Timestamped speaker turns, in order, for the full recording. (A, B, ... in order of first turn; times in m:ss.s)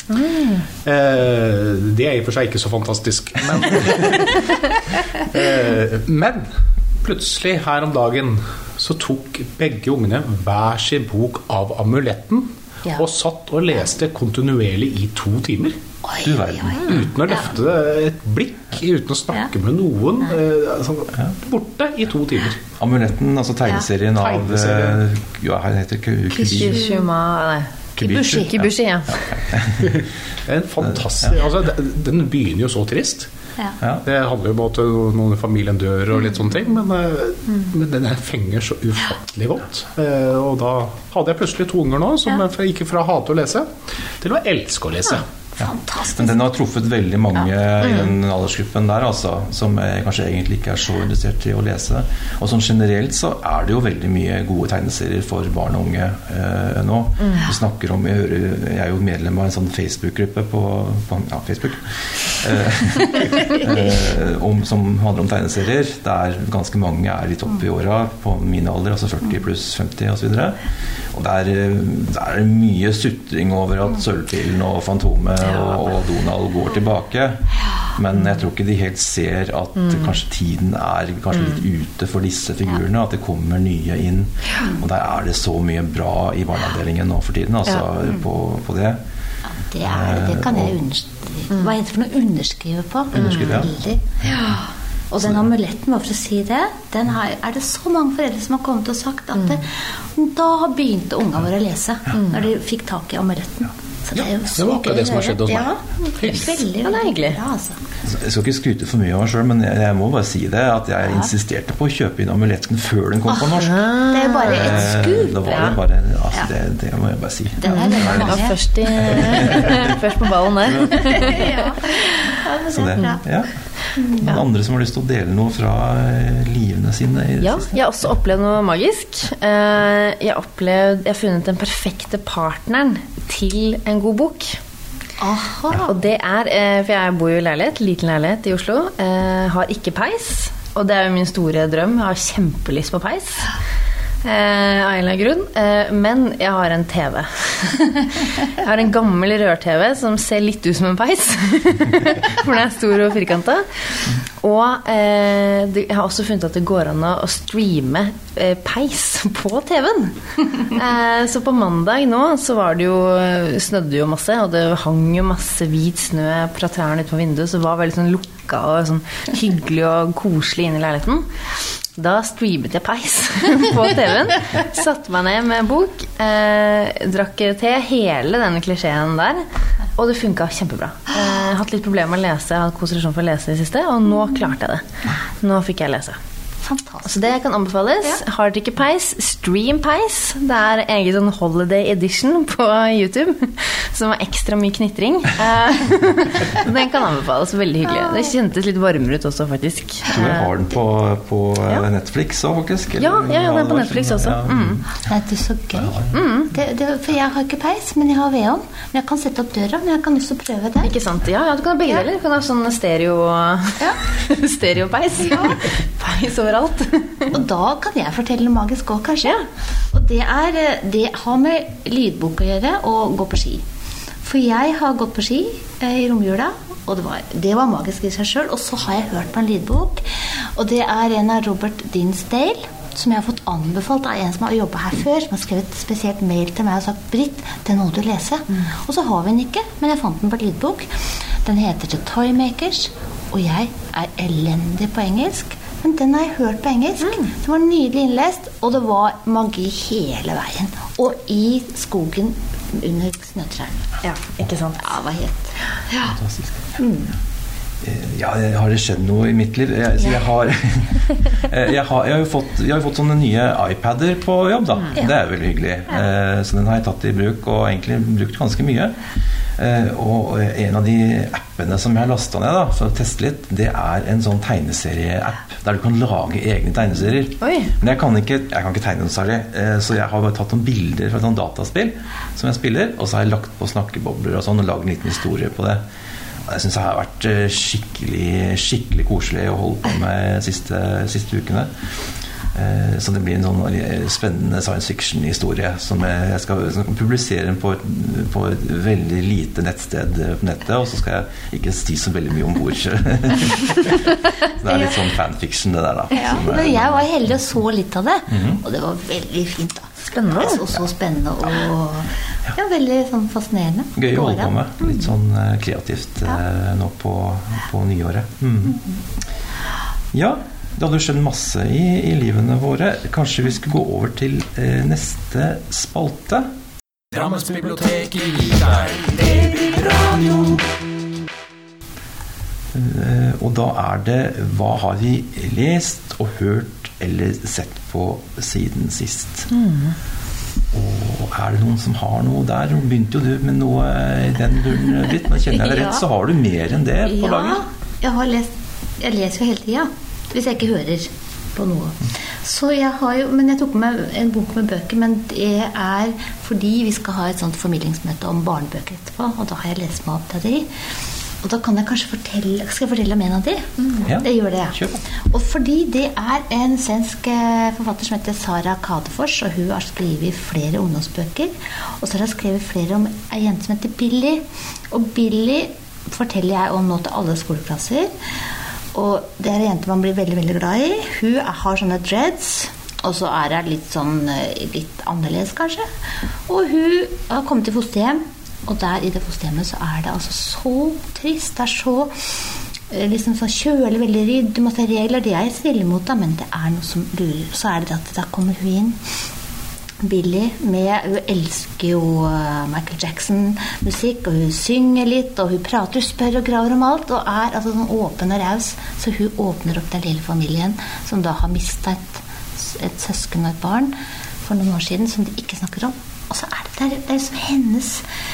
0:00.2-0:00.5 A
0:00.8-0:15.8 B
0:16.0-0:17.4 C
0:16.2-0:17.0 D
0:16.8-0:22.6 B
0:22.8-0:26.9 D
0:24.2-0:25.0 B
0:26.3-0:27.1 C
0:26.5-0:29.3 A
0:28.0-0:28.5 C
0:28.0-0:30.0 D
0:29.8-0:33.3 B
0:34.0-0:45.3 B
0:45.6-0:46.4 C
0:45.6-1:10.6 D
0:57.2-0:57.5 A
1:11.1-1:29.0 D
1:29.5-1:47.8 C
1:29.8-1:30.8 D
1:33.1-1:33.7 D
1:44.2-1:46.6 B
1:46.8-1:47.4 A
1:48.0-1:53.8 D
1:53.5-1:55.8 A
1:54.1-1:55.3 C
1:54.4-2:00.0 D
1:57.6-1:59.6 C
1:57.6-2:02.2 A
2:00.6-2:01.4 D
2:01.1-2:03.2 C
2:02.7-2:03.5 D
2:04.0-2:04.3 C
2:04.2-2:07.8 D
2:07.4-2:14.6 A
2:15.2-2:15.9 C
2:15.8-2:23.5 A
2:24.2-3:04.8 A
3:05.4-3:06.2 A
3:06.6-3:07.3 C
3:07.0-3:20.5 A
3:20.1-3:24.8 D
3:23.0-3:24.8 A
3:25.0-3:30.9 C
3:25.8-3:26.1 D
3:26.1-3:26.5 A
3:30.8-3:37.4 A
3:37.3-3:39.4 C
3:39.9-3:43.6 C
3:44.2-4:13.9 C
4:07.0-4:07.3 A
4:14.0-4:14.9 A
4:14.8-4:16.2 C
4:16.1-4:16.5 D
4:16.8-4:17.1 C
4:17.8-4:29.0 D
4:29.6-4:45.8 D
4:37.4-4:37.7 A
4:46.4-4:51.7 D
4:52.5-5:07.1 D
5:06.1-5:14.5 C
5:08.3-5:08.6 D
5:10.1-5:10.6 A
5:14.0-5:18.8 D
5:20.1-5:26.5 D
5:27.1-5:30.7 E
5:32.7-5:39.5 D
5:39.5-5:39.9 A
5:40.7-5:47.6 D
5:45.6-5:46.0 C
5:47.0-6:00.7 C
6:01.4-6:18.1 C
6:04.0-6:05.0 D
6:18.9-6:25.9 C
6:26.5-6:32.1 C
6:32.9-6:39.0 C
6:40.0-6:58.0 C